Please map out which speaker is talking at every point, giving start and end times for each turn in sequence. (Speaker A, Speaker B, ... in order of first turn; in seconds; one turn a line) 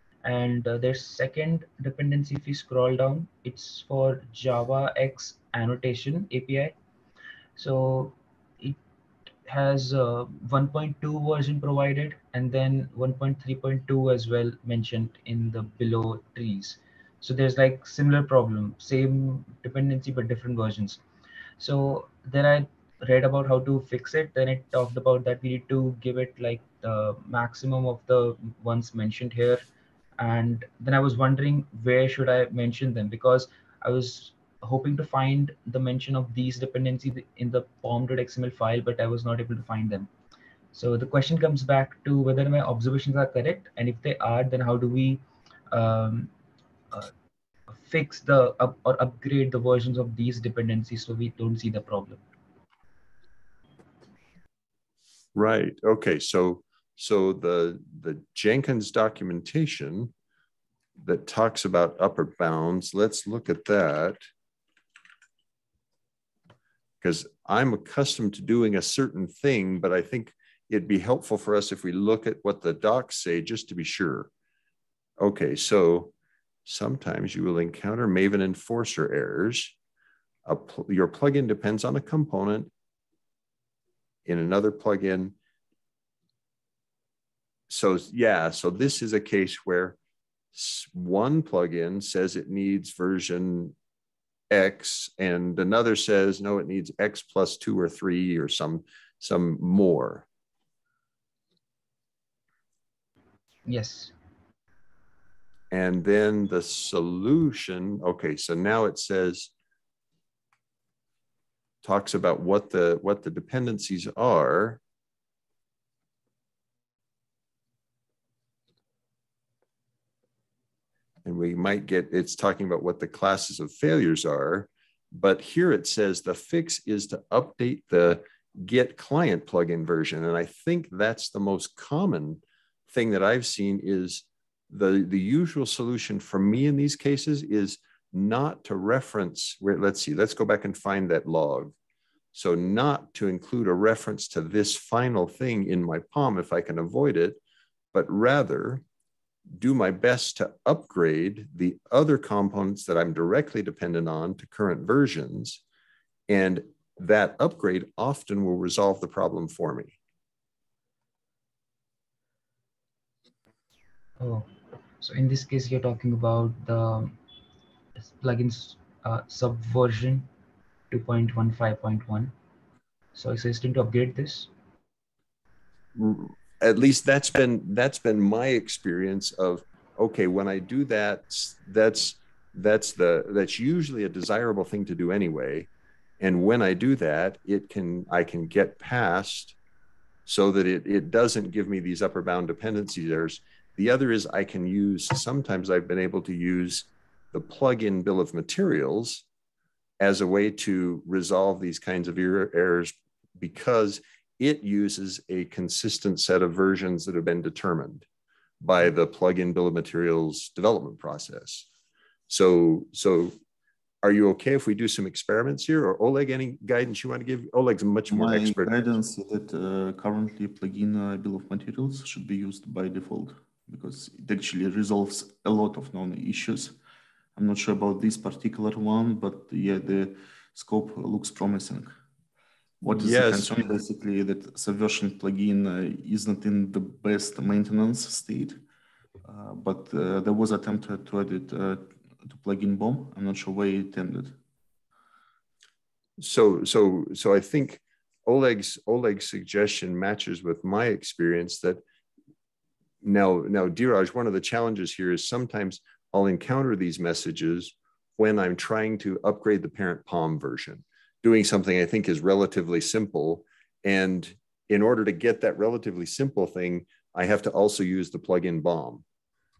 Speaker A: 0.2-6.7
Speaker A: 7.5-8.8
Speaker A: 9.4-21.0
Speaker A: 21.6-29.6
Speaker A: 30.2-40.1
Speaker A: 40.7-46.3
Speaker A: 47.7-52.2
Speaker B: 55.3-60.1
Speaker B: 61.0-64.2
Speaker B: 67.0-74.3
Speaker B: 75.2-76.1
Speaker B: 76.6-79.7
Speaker B: 80.4-82.7
Speaker B: 84.2-85.3
Speaker B: 87.7-90.0
Speaker B: 90.5-93.8
Speaker B: 94.5-100.2
Speaker A: 103.7-104.1
Speaker B: 105.7-109.5
Speaker B: 111.8-114.8
Speaker B: 121.2-141.7
Speaker B: 142.3-147.4
Speaker B: 147.9-148.8
Speaker B: 149.6-155.6
Speaker B: 156.3-159.9
Speaker A: 164.2-167.1
Speaker A: 168.0-170.3
Speaker A: 170.9-172.3
Speaker A: 173.1-174.5
Speaker B: 175.9-185.7
Speaker B: 186.2-189.6
Speaker B: 190.2-199.2
Speaker B: 200.0-208.1
Speaker B: 208.6-211.7
Speaker B: 212.3-213.3
Speaker B: 214.0-218.9
Speaker C: 218.1-226.8
Speaker C: 227.3-231.9
Speaker C: 232.8-238.6
Speaker B: 232.9-233.5
Speaker C: 239.2-244.4
Speaker B: 246.2-251.8
Speaker B: 253.0-269.0